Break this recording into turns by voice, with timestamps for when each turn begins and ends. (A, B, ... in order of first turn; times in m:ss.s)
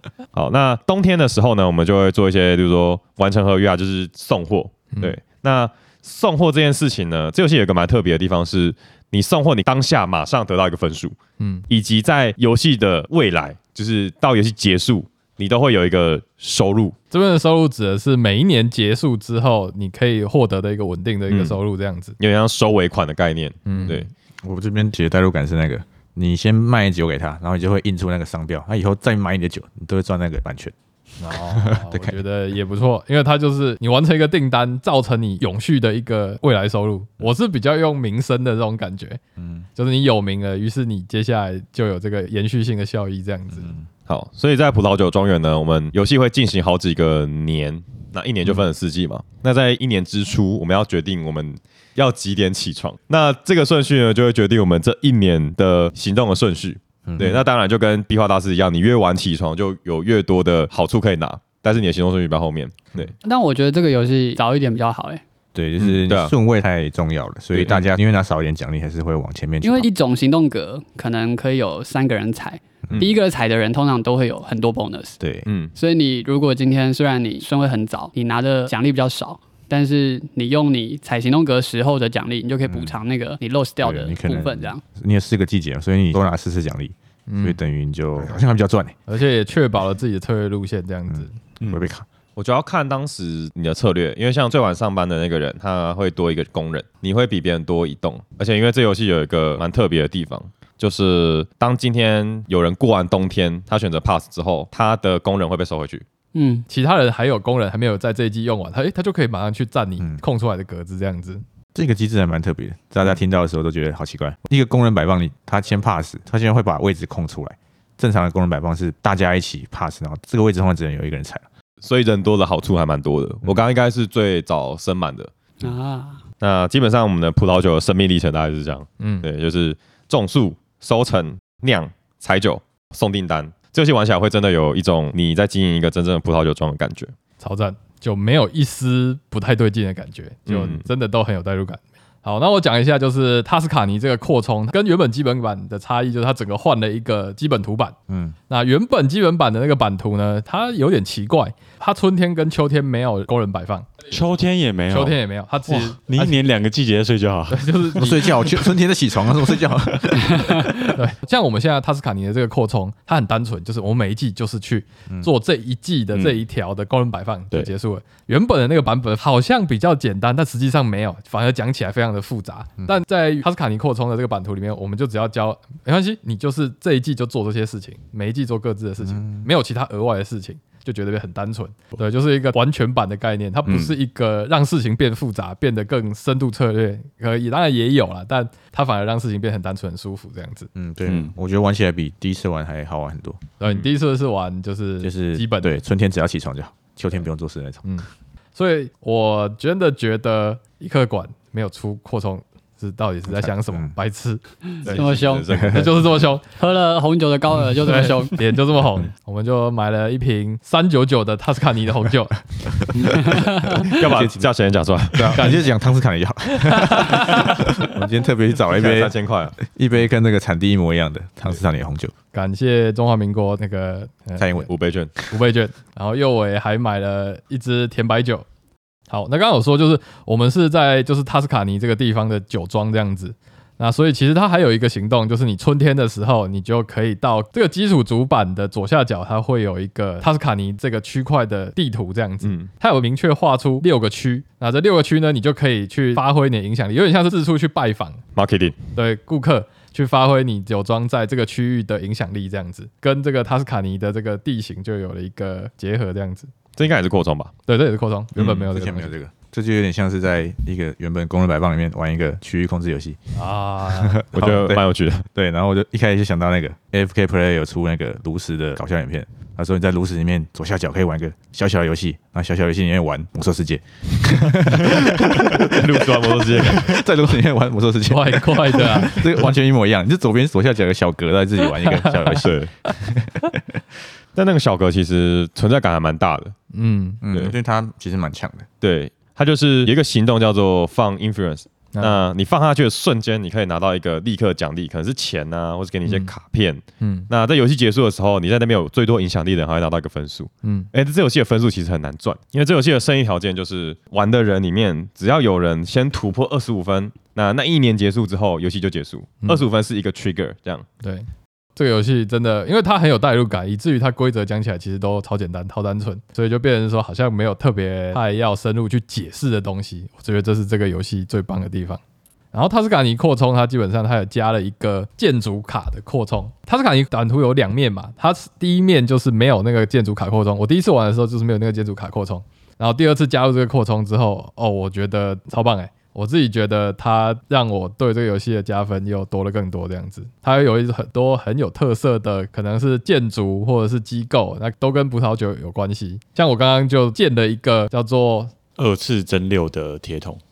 0:00.3-0:11.2 A
0:11.4-0:11.7 B
0:11.7-0:17.0 A
0:17.1-0:22.2 B
0:21.3-0:21.6 A
0:22.2-0:24.1 A
0:23.7-0:24.1 B
0:24.4-0:30.7 C
0:31.2-0:39.2 B
0:31.3-0:32.2 C
0:39.4-0:39.7 C
0:39.8-0:43.7 B
0:44.1-1:03.1 A
0:57.1-0:57.5 C
1:03.2-1:05.2 D
1:05.6-1:09.9 C
1:05.8-1:06.3 A
1:07.5-1:07.9 A
1:09.6-1:15.2 D
1:15.2-1:15.5 C
1:15.5-1:15.7 A
1:15.8-1:24.8 D
1:22.7-1:23.0 C
1:23.8-1:29.0 C
1:27.3-1:27.6 B
1:29.1-1:31.3 B
1:31.1-1:32.1 C
1:32.4-1:46.0 A
1:46.4-1:46.7 D
1:46.7-1:51.4 B
1:51.8-2:01.4 C
2:01.8-2:05.3 A
2:05.6-2:06.2 D
2:06.4-2:17.1 A
2:09.0-2:09.3 B
2:17.4-2:28.0 B
2:20.5-2:20.8 A
2:28.1-2:28.4 C
2:28.5-2:33.9 B
2:34.1-2:38.0 E
2:34.9-2:36.4 B
2:37.5-2:38.5 B
2:38.0-2:40.6 C
2:40.4-2:40.7 D
2:40.8-3:10.7 B
2:46.1-2:46.4 A
2:59.1-2:59.5 C
3:03.7-3:03.9 E
3:10.8-3:13.4 C
3:11.1-3:11.3 E
3:13.6-3:15.7 B
3:15.0-3:17.8 C
3:17.8-3:24.4 B
3:23.3-3:23.9 C
3:24.8-3:26.0 A
3:24.8-3:25.5 D
3:25.0-3:25.9 C
3:25.7-3:26.5 B
3:26.5-3:28.5 D
3:27.8-3:33.0 B
3:33.0-3:33.5 D
3:33.8-3:35.5 A
3:33.8-3:34.5 C
3:35.1-3:42.1 C
3:36.7-3:37.6 B
3:38.7-3:39.6 A
3:42.3-3:44.7 B
3:44.4-3:44.7 C
3:44.7-3:45.1 A
3:45.3-3:48.4 B
3:49.1-4:08.2 B
4:02.4-4:02.7 A
4:08.4-4:08.8 A
4:09.0-4:16.5 B
4:16.8-4:17.5 A
4:17.7-4:19.2 B
4:18.4-4:23.2 C
4:23.4-4:24.2 B
4:23.9-4:43.8 C
4:24.3-4:25.2 A
4:34.4-4:37.0 A
4:38.1-4:39.5 B
4:41.8-4:42.2 B
4:42.4-4:42.7 A
4:44.4-4:46.5 A
4:46.7-4:47.2 B
4:47.2-4:48.7 C
4:48.8-5:10.9 A
4:51.9-4:52.2 B
4:56.1-4:56.3 B
4:57.0-4:57.3 B
5:00.6-5:00.9 B
5:11.0-5:22.0 B
5:22.5-5:48.6 B
5:48.8-5:50.4 E